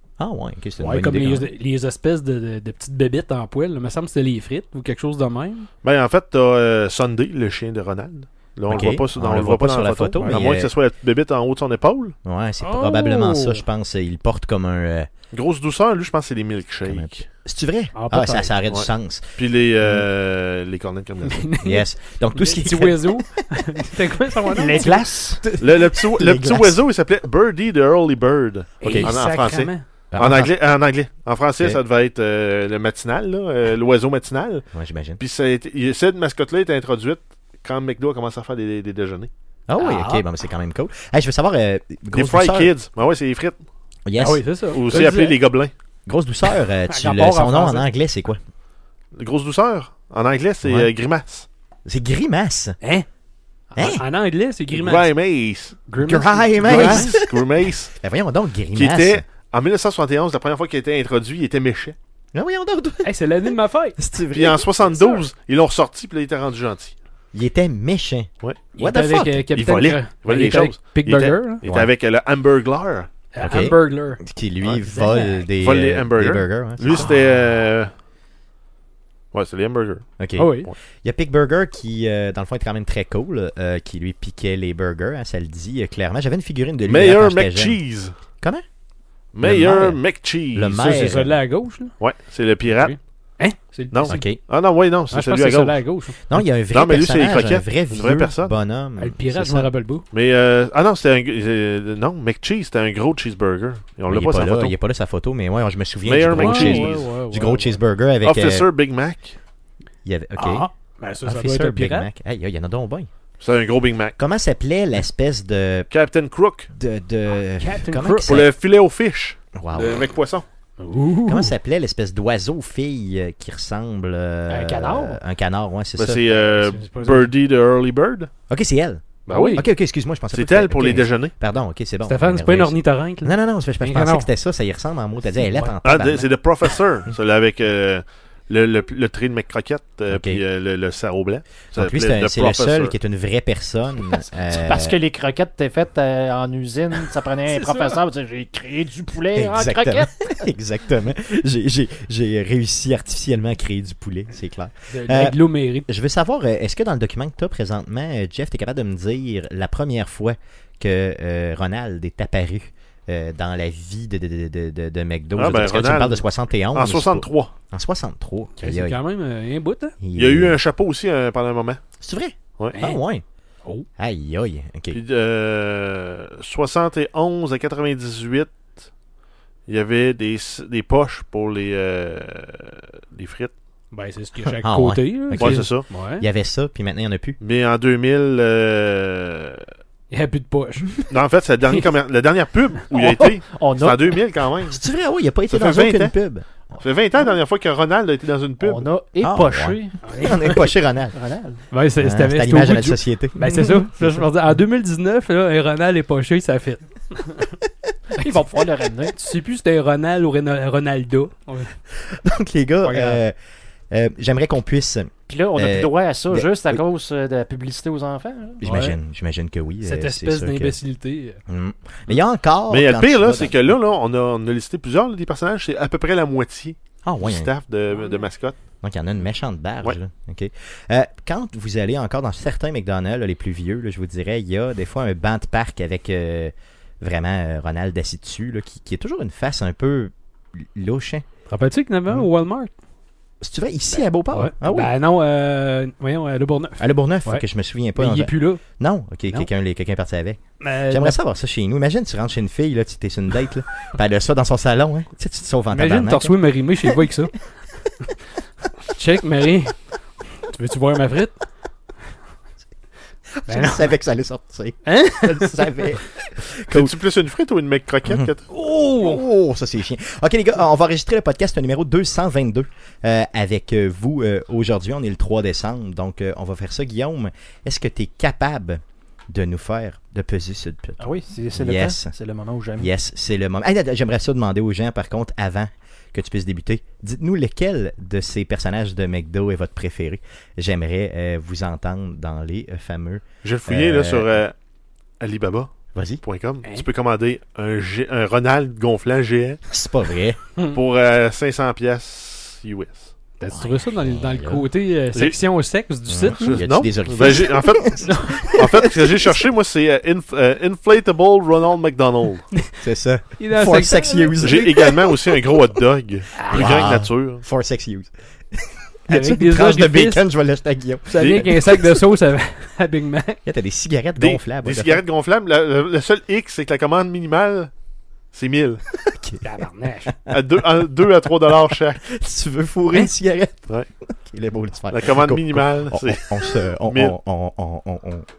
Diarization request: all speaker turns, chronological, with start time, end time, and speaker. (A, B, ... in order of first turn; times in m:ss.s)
0:00.2-0:01.5 A
0:00.8-0:05.7 B
0:05.8-0:12.1 C
0:08.7-0:10.7 A
0:10.2-0:10.4 B
0:12.2-0:15.1 A
0:12.6-0:13.6 B
0:15.3-0:17.3 C
0:16.8-0:20.0 A
0:17.9-0:18.5 B
0:18.7-0:21.5 C
0:21.3-0:25.0 B
0:21.6-0:23.2 A
0:24.4-0:25.4 D
0:25.4-0:26.8 A
0:25.6-0:39.3 C
0:28.8-0:29.1 A
0:28.8-0:29.8 B
0:30.1-0:30.5 A
0:34.7-0:35.2 A
0:39.7-0:42.7 A
0:39.8-0:40.3 B
0:42.1-0:43.6 C
0:44.0-0:44.4 A
0:44.2-0:45.4 B
0:44.7-0:45.7 C
0:46.0-0:48.4 A
0:46.9-0:47.8 B
0:49.1-0:51.5 C
0:50.6-0:50.9 A
0:51.8-0:52.8 A
0:52.8-0:53.1 B
0:53.7-0:55.2 B
0:53.8-0:54.0 A
0:54.7-0:55.8 C
0:55.8-0:57.1 B
0:56.0-0:57.3 A
0:56.6-0:57.9 C
0:58.0-0:59.2 A
0:58.7-1:02.0 C
1:02.3-1:04.8 A
1:03.0-1:04.0 B
1:04.3-1:06.9 C
1:07.3-1:09.5 A
1:08.7-1:11.6 B
1:09.5-1:13.1 C
1:11.6-1:11.9 A
1:13.3-1:15.5 B
1:13.4-1:17.2 A
1:15.6-1:17.9 C
1:19.3-1:20.1 C
1:20.2-1:27.8 A
1:20.4-1:20.7 B
1:26.9-1:28.1 C
1:29.3-1:31.1 C
1:29.4-1:30.0 A
1:30.5-1:31.4 A
1:30.8-1:32.0 B
1:32.0-1:33.0 C
1:32.6-1:34.3 B
1:33.9-1:35.9 C
1:34.0-1:34.4 A
1:35.1-1:36.2 B
1:36.3-1:39.7 A
1:36.4-1:38.6 C
1:39.0-1:40.0 B
1:40.1-1:44.8 C
1:44.1-1:48.7 A
1:46.0-1:47.1 C
1:46.3-1:47.8 B
1:48.2-1:49.4 C
1:50.0-1:50.7 A
1:50.4-1:52.1 B
1:51.2-1:53.1 A
1:53.4-1:54.2 C
1:54.2-1:55.9 A
1:55.9-1:56.7 C
1:56.7-1:58.4 A
1:57.3-1:58.5 B
1:58.2-2:00.4 C
1:59.6-2:00.0 A
2:00.8-2:01.5 B
2:01.2-2:06.2 A
2:06.0-2:08.3 C
2:06.2-2:07.4 B
2:08.5-2:16.3 A
2:09.3-2:09.6 C
2:09.3-2:09.6 B
2:10.3-2:11.3 C
2:12.0-2:14.3 B
2:15.3-2:15.8 B
2:15.8-2:23.0 C
2:20.1-2:20.4 A
2:21.7-2:25.0 A
2:24.5-2:30.3 D
2:27.4-2:28.0 B
2:29.3-2:49.0 A
2:34.9-2:35.9 B
2:45.3-2:47.5 C
2:48.6-2:50.0 B
2:50.0-2:50.6 A
2:50.1-2:51.8 C
2:52.0-2:53.2 A
2:52.7-2:53.0 B
2:54.0-2:55.0 A
2:54.9-2:58.8 C
2:59.7-3:03.5 C
3:03.9-3:06.2 B
3:04.6-3:07.4 A
3:05.4-3:05.9 C
3:07.4-3:09.7 C
3:10.1-3:11.0 B
3:11.1-3:14.8 C
3:12.9-3:14.2 D
3:14.7-3:16.5 A
3:15.5-3:16.2 C
3:16.8-3:18.9 C
3:18.6-3:20.0 D
3:19.2-3:21.2 A
3:20.0-3:20.7 B
3:21.1-3:21.6 D
3:21.7-3:27.5 B
3:22.0-3:24.2 A
3:28.1-3:29.1 D
3:29.0-3:31.7 B
3:31.9-3:33.3 A
3:32.8-3:33.2 B
3:33.9-3:36.8 A
3:35.3-3:38.6 D
3:38.6-3:40.8 A
3:38.6-3:39.0 B
3:39.8-3:41.4 B
3:41.5-3:43.7 A
3:42.7-3:48.6 C
3:47.0-3:47.5 A
3:48.8-4:01.2 A
4:01.5-4:02.7 B
4:03.4-4:04.9 A
4:03.9-4:08.6 B
4:06.8-4:16.4 A
4:10.6-4:11.2 B
4:15.7-4:17.4 B
4:18.9-4:19.8 B
4:20.4-4:21.4 B
4:23.4-4:27.0 A
4:23.5-4:23.9 B
4:24.8-4:25.7 B
4:26.7-4:28.4 C
4:28.5-4:29.2 B
4:29.0-4:42.1 A
4:41.0-4:42.9 D
4:42.8-4:54.4 A
4:53.4-4:54.5 C
4:55.2-4:59.6 C
4:55.9-4:56.2 A
4:59.7-5:00.4 A
5:00.7-5:03.1 C
5:03.4-5:06.6 B
5:03.5-5:04.6 A
5:06.1-5:09.3 A
5:06.4-5:12.4 C
5:08.0-5:08.6 B
5:12.8-5:15.2 A
5:13.4-5:14.5 B
5:14.4-5:17.4 C
5:16.4-5:16.9 B
5:16.5-5:22.0 A
5:19.1-5:20.2 B
5:21.0-5:23.4 B
5:21.2-5:21.5 C
5:23.4-5:25.0 A
5:24.2-5:27.7 C
5:28.3-5:28.8 C
5:28.9-5:29.5 A
5:29.4-5:30.1 B
5:30.0-5:30.4 A
5:30.3-5:32.0 C
5:31.7-5:38.3 A
5:34.9-5:37.2 C